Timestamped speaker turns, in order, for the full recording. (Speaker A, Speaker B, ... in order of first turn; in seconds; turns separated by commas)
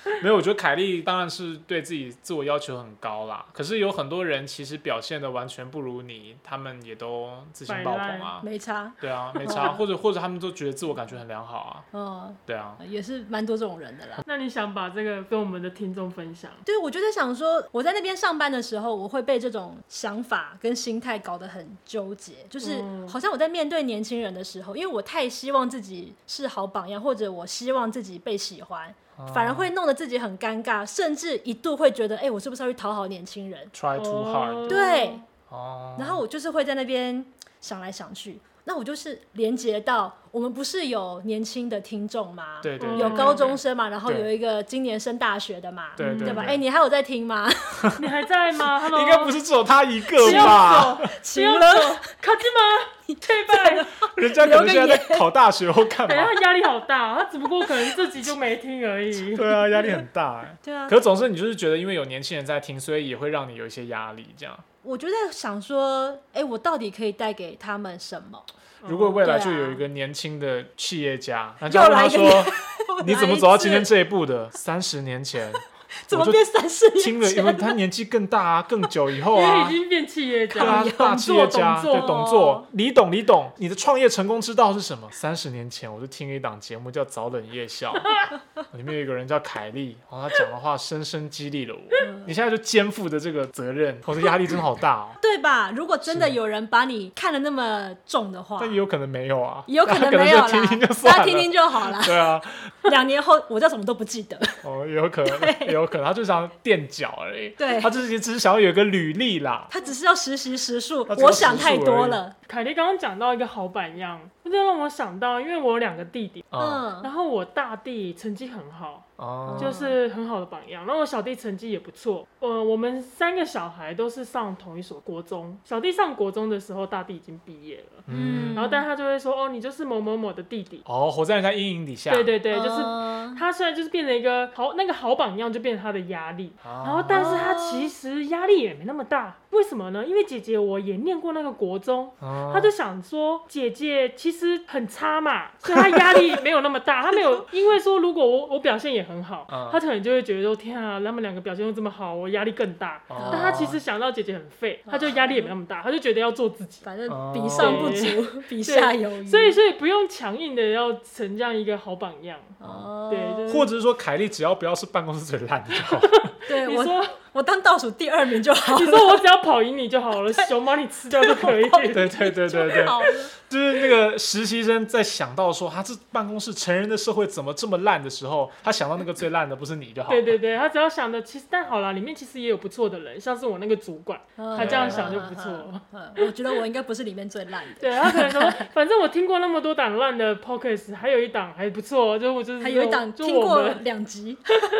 Speaker A: 0.2-8.4, Speaker B: 7.7-8.3, Speaker C: 8.4-9.8, Speaker A: 9.0-11.9, Speaker C: 11.9-14.2, Speaker A: 12.5-12.8, Speaker B: 14.2-16.6, Speaker C: 16.6-33.7, Speaker B: 22.6-23.2, Speaker A: 29.1-29.7, Speaker A: 33.7-34.8, Speaker B: 34.0-35.2, Speaker C: 34.7-35.2, Speaker A: 35.5-36.2, Speaker C: 36.0-48.0, Speaker A: 42.6-44.3, Speaker B: 42.8-43.6, Speaker A: 46.0-46.6, Speaker B: 46.0-46.5, Speaker A: 47.8-48.1, Speaker B: 48.0-49.4, Speaker A: 48.9-51.1, Speaker B: 50.2-53.9, Speaker C: 50.2-52.1, Speaker C: 53.1-55.3, Speaker A: 54.0-56.4, Speaker B: 56.0-59.5, Speaker C: 57.7-57.9, Speaker A: 59.3-64.6, Speaker C: 59.7-60.0, Speaker C: 60.6-61.0, Speaker C: 64.8-68.5, Speaker B: 68.8-69.2, Speaker A: 68.8-76.4, Speaker C: 69.2-69.8, Speaker C: 71.7-73.9, Speaker C: 76.0-77.8, Speaker A: 76.9-79.8, Speaker B: 79.3-82.2, Speaker C: 80.5-82.7, Speaker A: 80.5-95.2, Speaker C: 92.0-92.3, Speaker C: 95.2-98.8, Speaker A: 96.1-96.4, Speaker A: 98.6-102.8, Speaker C: 99.7-102.3, Speaker C: 102.8-104.6, Speaker A: 104.6-109.7, Speaker C: 105.2-105.7, Speaker C: 107.6-107.9, Speaker C: 109.7-112.3, Speaker A: 111.1-112.2, Speaker B: 112.5-130.8, Speaker A: 116.5-116.8, Speaker C: 116.6-117.1, Speaker A: 119.2-119.7, Speaker C: 119.5-120.0, Speaker A: 128.1-128.6, Speaker C: 128.1-128.8, Speaker A: 130.8-132.3, Speaker B: 132.1-156.8, Speaker C: 132.5-133.4, Speaker A: 136.6-137.5, Speaker C: 137.1-137.9, Speaker A: 142.2-142.7, Speaker A: 145.7-146.3, Speaker C: 147.2-147.4, Speaker A: 149.5-149.8, Speaker A: 153.1-153.8, Speaker C: 153.2-153.7, Speaker C: 154.9-155.5, Speaker C: 156.8-159.6, Speaker A: 157.1-158.0, Speaker B: 157.6-162.5, Speaker C: 162.6-163.5, Speaker B: 163.1-163.7, Speaker A: 163.5-166.3, Speaker B: 165.8-167.1, Speaker C: 166.5-169.2, Speaker B: 168.7-172.1, Speaker C: 171.1-173.3, Speaker A: 171.9-180.4, Speaker B: 180.1-186.5, Speaker C: 184.4-188.7, Speaker A: 184.6-185.3, Speaker B: 187.8-193.8, Speaker C: 192.6-194.6